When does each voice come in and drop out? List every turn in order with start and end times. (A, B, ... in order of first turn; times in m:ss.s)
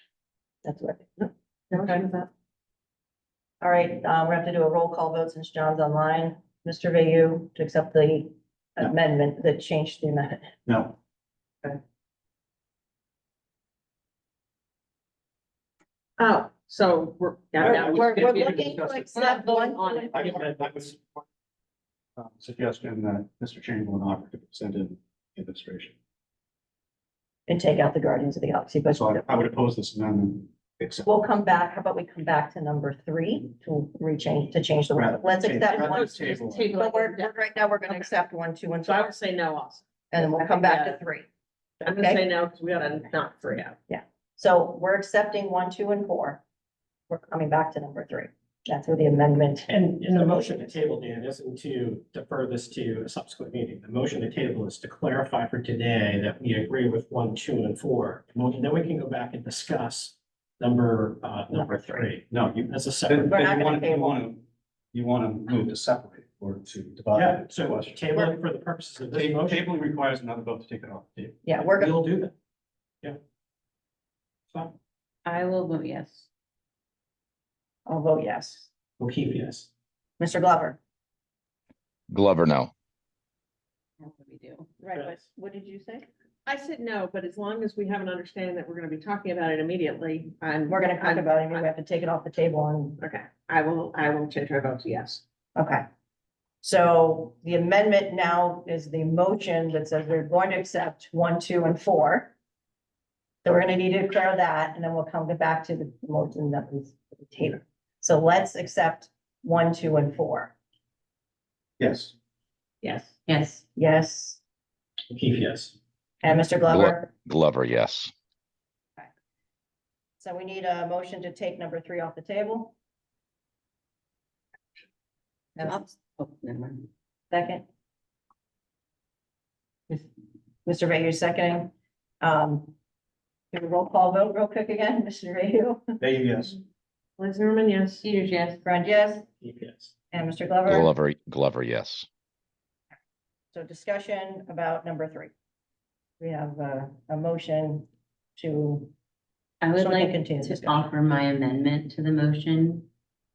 0:00.6-0:02.1 A
0:01.7-0:02.3 B
0:03.6-0:10.5 A
0:10.7-0:11.0 C
0:16.2-0:18.7 B
0:17.6-0:19.3 C
0:17.6-0:20.4 A
0:19.1-0:20.4 D
0:19.5-0:19.8 B
0:20.1-0:21.2 C
0:22.2-0:26.0 C
0:27.5-0:29.3 A
0:28.9-0:31.1 C
0:31.0-0:39.2 A
0:34.9-0:36.7 C
0:35.7-0:38.1 B
0:38.8-0:41.0 B
0:40.1-0:41.3 A
0:41.8-0:42.2 A
0:41.8-0:43.8 B
0:43.9-0:46.4 A
0:47.1-0:50.8 A
0:49.7-1:03.4 E
1:01.6-1:02.1 A
1:02.3-1:08.0 C
1:03.3-1:04.2 A
1:07.2-1:09.7 E
1:09.1-1:11.4 C
1:11.4-1:12.1 A
1:11.6-1:12.3 E
1:14.5-1:14.8 E
1:15.3-1:16.3 D
1:17.9-1:18.7 A
1:19.0-1:19.7 E
1:20.2-1:20.8 A
1:22.1-1:22.7 F
1:24.0-1:24.7 D
1:24.8-1:26.1 A
1:25.0-1:25.2 E
1:26.5-1:31.6 B
1:30.7-1:33.0 A
1:33.0-1:35.2 B
1:35.6-1:35.8 A
1:36.6-1:42.3 A
1:43.4-1:50.5 A
1:51.8-1:52.1 C
1:53.3-1:53.6 D
1:53.8-1:54.4 A
1:55.1-1:55.7 E
1:56.2-1:57.1 A
1:56.7-1:58.1 F
2:00.2-2:02.7 A
2:05.6-2:05.8 A
2:05.6-2:06.9 D
2:07.3-2:07.6 A
2:10.6-2:12.7 A
2:13.5-2:15.8 A
2:16.0-2:16.6 C
2:17.2-2:18.0 B
2:18.0-2:18.6 D
2:18.6-2:19.3 A
2:19.4-2:19.9 E
2:20.1-2:20.9 A
2:20.7-2:22.1 F
2:23.5-2:25.3 A
2:26.2-2:28.9 A
2:29.6-2:32.9 D
2:29.8-2:30.9 A